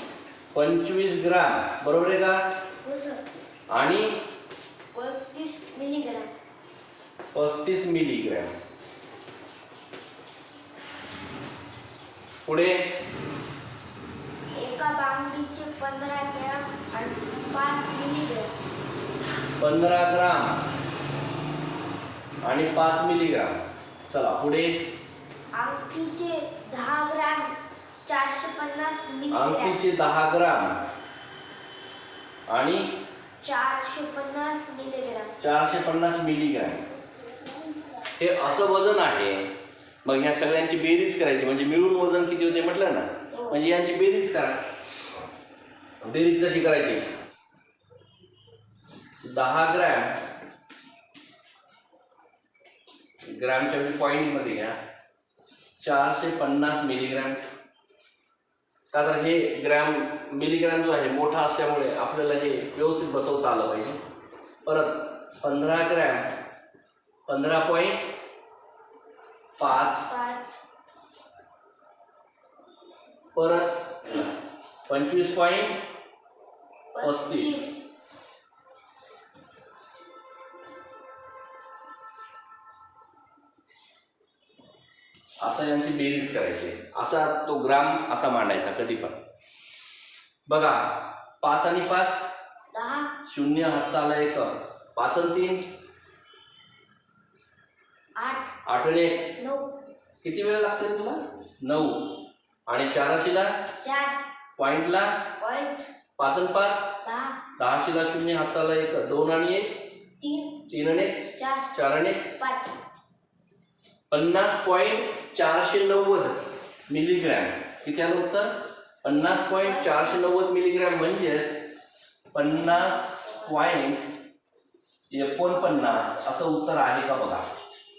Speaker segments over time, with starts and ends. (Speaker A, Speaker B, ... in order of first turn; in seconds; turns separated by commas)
Speaker A: 0.5-2.4, Speaker B: 2.8-3.2, Speaker A: 3.7-4.2, Speaker B: 4.9-6.3, Speaker A: 7.3-8.6, Speaker A: 12.5-12.9, Speaker B: 14.6-18.5, Speaker A: 19.6-20.6, Speaker A: 22.4-24.8, Speaker B: 25.5-27.5, Speaker B: 28.1-29.8, Speaker A: 29.3-30.8, Speaker A: 32.5-32.9, Speaker B: 33.4-35.3, Speaker A: 35.4-36.8, Speaker A: 38.2-39.5, Speaker A: 40.0-44.6, Speaker B: 43.3-43.6, Speaker A: 46.0-47.1, Speaker A: 49.2-50.2, Speaker A: 53.2-54.8, Speaker A: 55.8-57.4, Speaker A: 58.9-64.0, Speaker A: 64.7-66.3, Speaker A: 67.3-68.0, Speaker A: 69.6-70.1, Speaker B: 69.7-70.4, Speaker A: 73.3-75.8, Speaker B: 76.9-77.8, Speaker A: 77.0-77.6, Speaker A: 85.4-89.2, Speaker A: 90.5-92.2, Speaker B: 92.7-93.1, Speaker A: 93.3-95.7, Speaker B: 98.2-98.5, Speaker A: 98.7-99.3, Speaker B: 99.4-99.7, Speaker A: 100.2-103.6, Speaker B: 103.8-104.2, Speaker A: 104.6-105.2, Speaker B: 105.4-105.9, Speaker A: 106.2-106.9, Speaker B: 107.0-107.4, Speaker A: 107.6-109.8, Speaker B: 110.2-110.7, Speaker A: 110.7-112.3, Speaker B: 111.3-111.7, Speaker B: 112.4-112.8, Speaker A: 114.1-121.5, Speaker B: 119.5-120.3, Speaker A: 122.3-124.0, Speaker B: 122.5-123.8, Speaker A: 125.1-127.5